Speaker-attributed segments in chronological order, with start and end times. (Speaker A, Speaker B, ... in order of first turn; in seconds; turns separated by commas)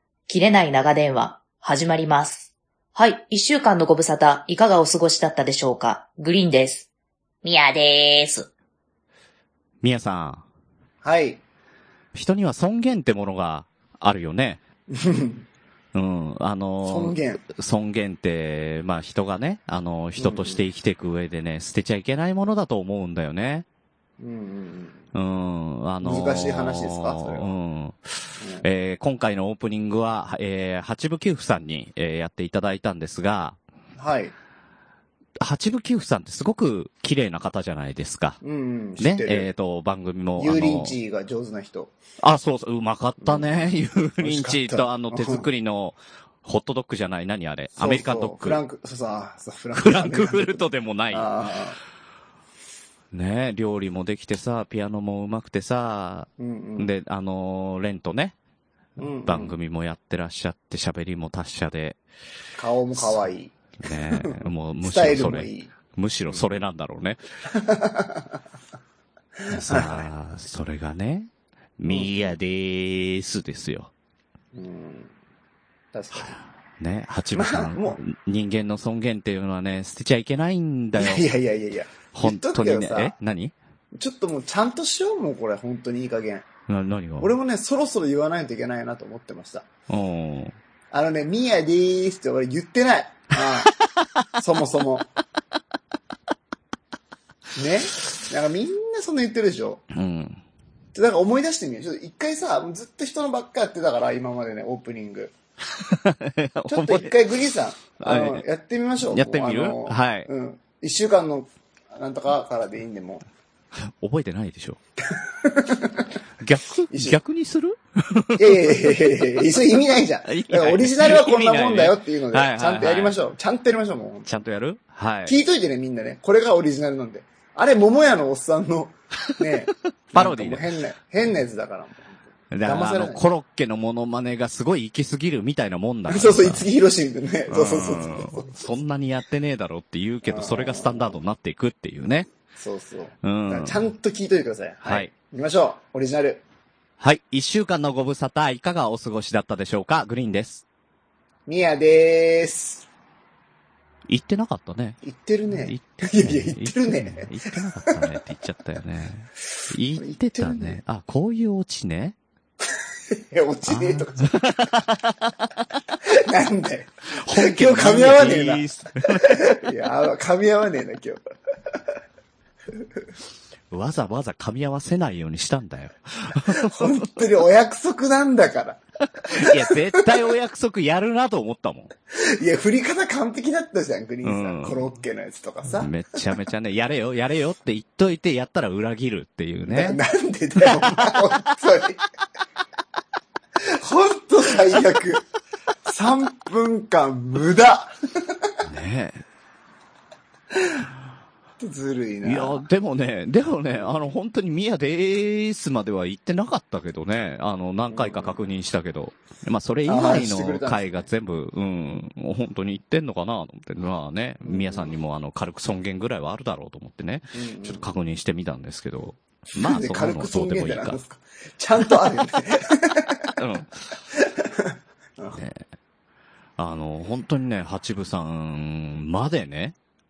Speaker A: 0.3-6.9, Speaker A: 7.4-8.5, Speaker B: 9.8-10.4, Speaker C: 11.0-11.4, Speaker B: 12.1-14.6, Speaker C: 14.9-15.4, Speaker B: 15.9-23.6, Speaker C: 16.8-17.4, Speaker C: 20.2-20.6, Speaker C: 24.2-25.0, Speaker B: 25.1-33.6, Speaker C: 26.0-27.5, Speaker C: 28.4-28.6, Speaker C: 34.0-34.3, Speaker B: 35.4-38.4, Speaker C: 38.4-39.5, Speaker B: 39.0-41.0, Speaker C: 40.4-41.9, Speaker B: 42.2-48.6, Speaker C: 43.2-43.5, Speaker C: 44.2-45.5, Speaker C: 47.8-51.8, Speaker B: 49.7-51.3, Speaker B: 53.1-58.3, Speaker C: 56.4-56.9, Speaker C: 59.0-59.5, Speaker B: 59.0-62.0, Speaker C: 62.6-65.7, Speaker B: 62.9-63.2, Speaker B: 63.8-67.2, Speaker C: 67.5-68.4, Speaker C: 69.4-70.1, Speaker B: 69.5-73.9, Speaker C: 71.9-72.2, Speaker C: 74.5-75.1, Speaker C: 75.9-76.3, Speaker B: 76.1-81.2, Speaker C: 77.3-78.0, Speaker C: 81.0-83.1, Speaker B: 82.1-83.5, Speaker C: 83.9-86.5, Speaker B: 86.7-87.3, Speaker C: 87.2-89.7, Speaker B: 89.9-90.6, Speaker C: 90.9-93.8, Speaker C: 94.3-95.1, Speaker C: 97.5-99.8, Speaker B: 99.9-100.4, Speaker C: 100.9-105.3, Speaker B: 105.7-107.1, Speaker C: 106.7-113.2, Speaker B: 108.0-108.4, Speaker B: 109.0-110.3, Speaker B: 113.7-114.8, Speaker C: 115.1-116.1, Speaker B: 116.4-119.0, Speaker C: 116.9-117.2, Speaker C: 118.3-124.3, Speaker B: 120.3-123.2, Speaker B: 124.2-125.3, Speaker C: 125.2-133.3, Speaker B: 130.1-130.8, Speaker B: 132.5-136.7, Speaker C: 136.1-138.7, Speaker B: 137.5-142.3, Speaker C: 140.2-141.1, Speaker C: 142.5-146.4, Speaker B: 143.2-143.8, Speaker B: 144.8-145.1, Speaker B: 147.0-150.6, Speaker C: 151.5-152.8, Speaker B: 154.1-162.2, Speaker C: 155.0-158.1, Speaker C: 159.9-160.8, Speaker C: 163.1-164.7, Speaker B: 163.7-165.7, Speaker C: 166.0-171.2, Speaker B: 167.1-169.6, Speaker B: 173.7-177.0, Speaker C: 176.4-180.2, Speaker B: 179.2-181.9, Speaker C: 182.1-185.9, Speaker B: 184.2-184.8, Speaker B: 185.8-190.0, Speaker C: 189.7-192.0, Speaker B: 190.6-191.4, Speaker C: 193.7-195.2, Speaker C: 195.8-198.5, Speaker B: 198.6-199.2, Speaker C: 200.5-200.9, Speaker C: 201.6-202.6, Speaker B: 202.2-221.0, Speaker C: 207.9-208.4, Speaker C: 209.8-210.9, Speaker C: 214.4-214.9, Speaker C: 217.3-217.9, Speaker C: 219.6-223.4, Speaker B: 223.4-223.7, Speaker C: 224.1-225.4, Speaker B: 225.3-225.7, Speaker B: 226.6-229.8